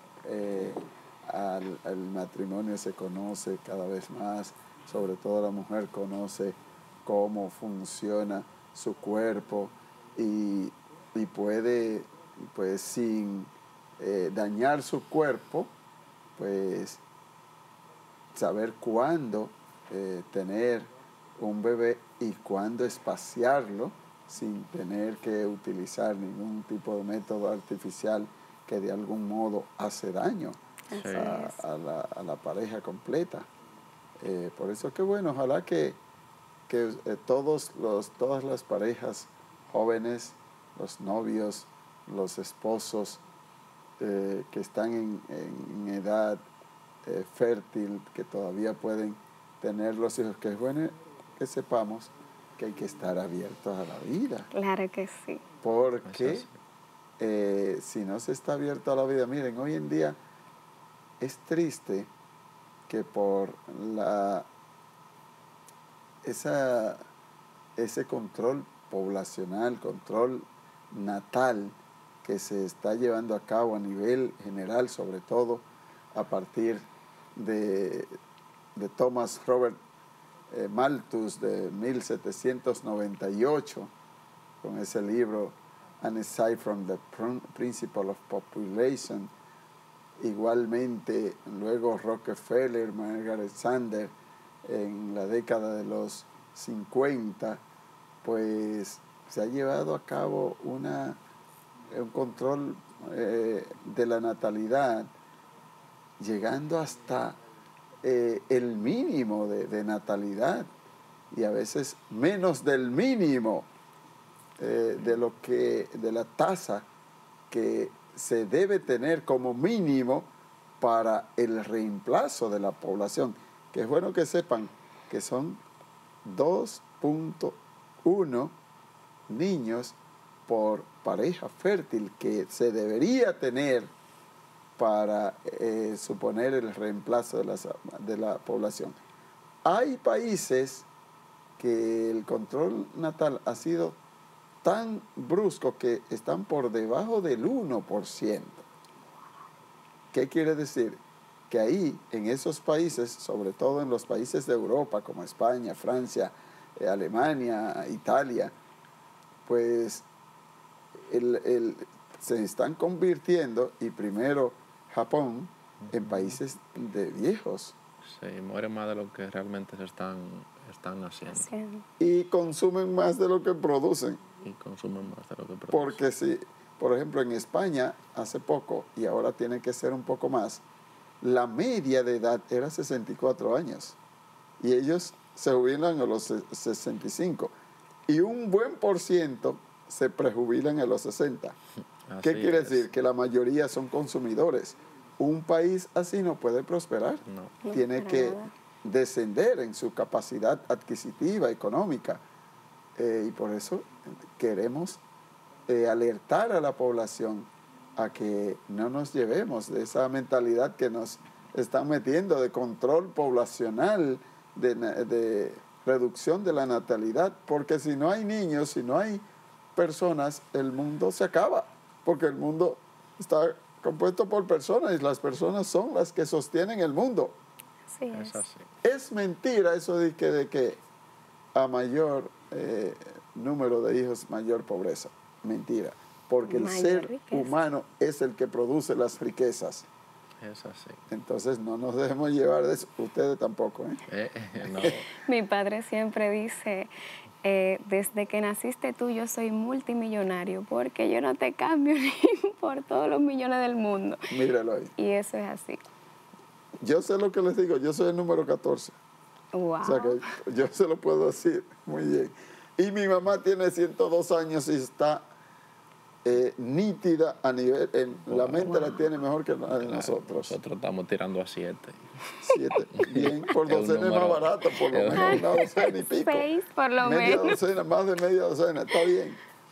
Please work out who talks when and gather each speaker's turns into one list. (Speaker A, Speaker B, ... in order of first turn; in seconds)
Speaker A: 0.2-15.7, 16.4-17.0, 18.3-30.6, 31.1-33.5, 34.2-36.0, 36.7-43.2, 44.0-46.4, 47.0-54.5, 55.6-56.5, 57.2-60.2, 61.2-62.1, 62.9-64.5, 66.2-67.0, 67.8-78.1, 78.7-79.8, 80.5-83.9, 84.6-89.3, 90.2-94.1, 94.6-97.6, 98.2-101.2, 101.9-105.1, 106.2-107.4, 108.0-110.7, 111.3-113.7, 114.6-116.8, 117.5-125.6, 126.2-128.5, 129.3-129.9, 130.5-133.9, 134.8-139.0, 139.6-140.9, 141.6-144.0, 144.6-148.6, 150.1-158.5, 159.4-160.1, 160.9-167.7, 172.0-174.2, 175.7-180.6, 181.2-184.0, 184.6-187.5, 188.1-191.6, 192.2-202.2, 202.9-205.0, 205.7-219.2, 219.8-227.4, 228.8-230.8, 231.5-239.8, 241.1-244.0, 244.6-244.9, 254.3-254.9, 256.8-258.9, 259.8-265.2, 266.2-270.6, 272.4-276.5, 277.0-279.4
Speaker B: 30.9-31.6, 54.5-55.4, 171.3-171.8, 197.6-198.5, 227.9-228.4, 236.4-237.6, 245.2-246.9, 247.4-254.3, 255.0-255.8, 259.5-260.2, 275.1-277.6
Speaker C: 30.9-31.3, 56.0-56.5, 168.0-171.5, 174.4-176.0, 192.1-192.9, 197.3-197.5, 228.1-228.7, 240.4-241.0, 244.1-245.1, 268.3-268.9, 269.7-272.1, 273.0-275.6